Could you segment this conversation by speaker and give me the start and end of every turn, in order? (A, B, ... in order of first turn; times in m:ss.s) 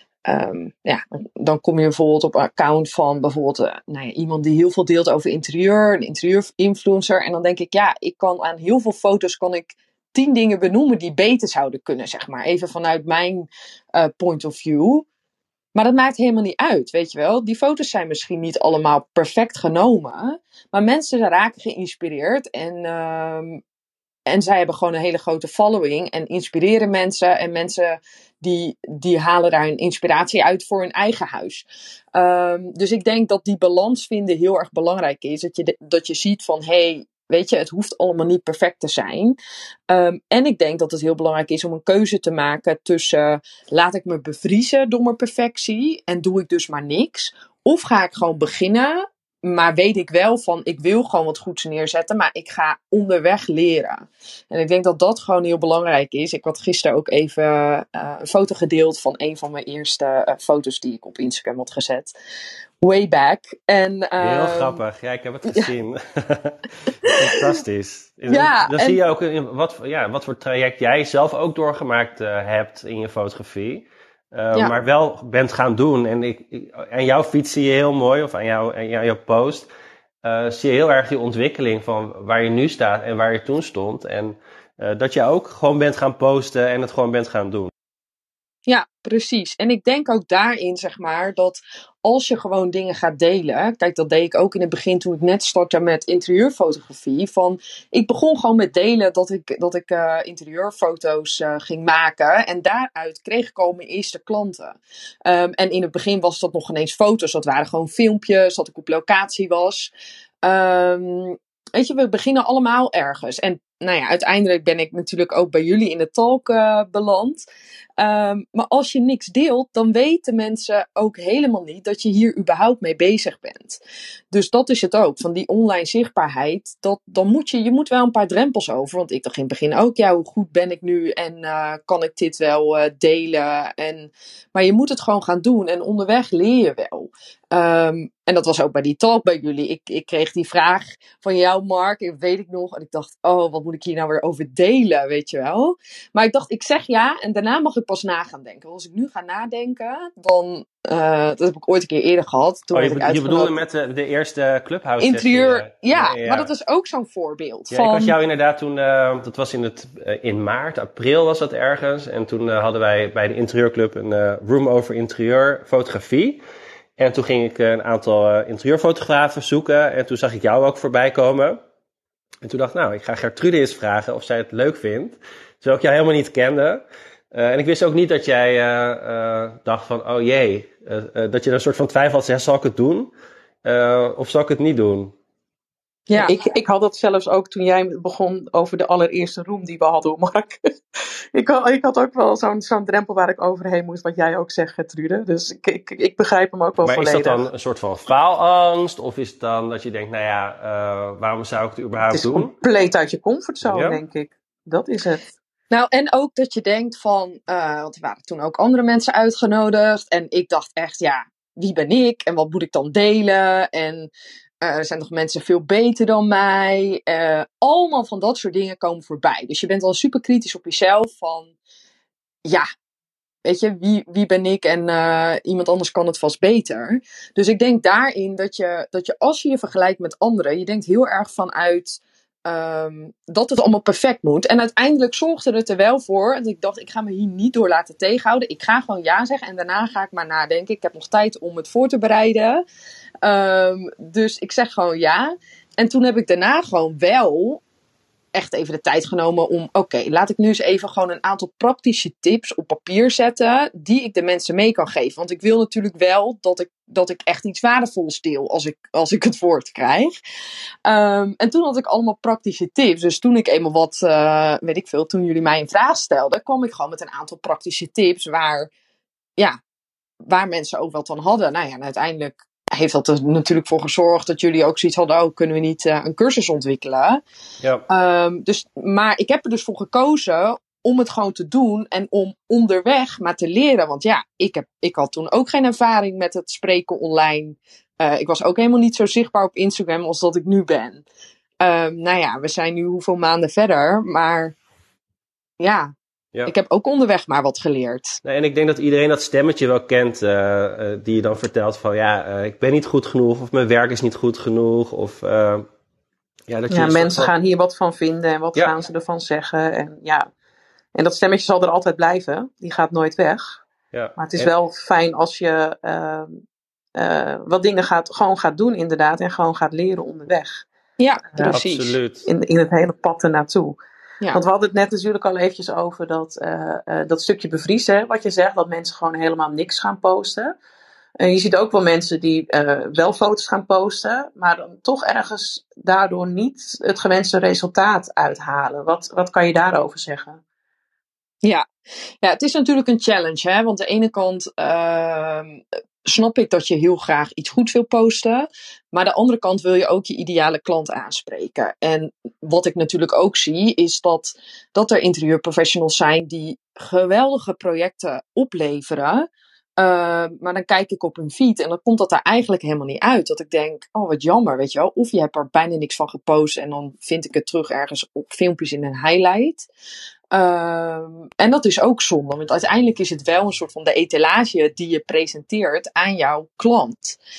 0:00.3-0:15.1 A
0:15.8-0:23.6 A
0:24.3-0:39.4 A
0:39.9-1:02.1 A
1:02.8-1:04.8 A
1:04.2-1:19.7 B
1:07.0-1:07.4 A
1:08.3-1:09.0 A
1:20.2-1:27.7 B
1:28.7-1:49.9 A
1:50.4-1:57.4 A
1:58.0-2:03.8 A
2:04.3-2:33.5 A
2:32.7-2:36.5 B
2:35.0-2:38.1 A
2:37.7-2:46.4 B
2:47.0-2:51.6 B
2:52.4-3:03.1 B
3:03.6-3:05.1 B
3:06.2-3:10.7 C
3:11.3-3:17.4 C
3:16.8-3:22.5 B
3:22.1-3:25.2 C
3:23.6-3:24.0 B
3:25.7-3:34.1 A
3:34.6-3:41.5 A
3:43.4-4:02.6 A
4:03.2-4:07.6 A
4:08.4-4:20.1 A
4:20.9-4:28.7 A
4:30.3-4:37.2 A
4:37.9-4:51.0 A
4:51.6-4:54.6 A
4:55.6-4:55.9 A
4:56.5-4:58.2 A
4:58.2-5:05.6 B
5:06.5-5:07.3 B
5:06.7-5:10.3 C
5:11.0-5:13.6 C
5:13.9-5:14.5 B
5:14.2-5:16.4 C
5:17.0-5:20.7 C
5:21.0-5:22.0 A
5:21.5-5:22.3 B
5:22.2-5:23.8 C
5:24.3-5:30.5 C
5:31.2-5:40.4 C
5:42.2-6:09.7 A
6:10.3-6:17.2 A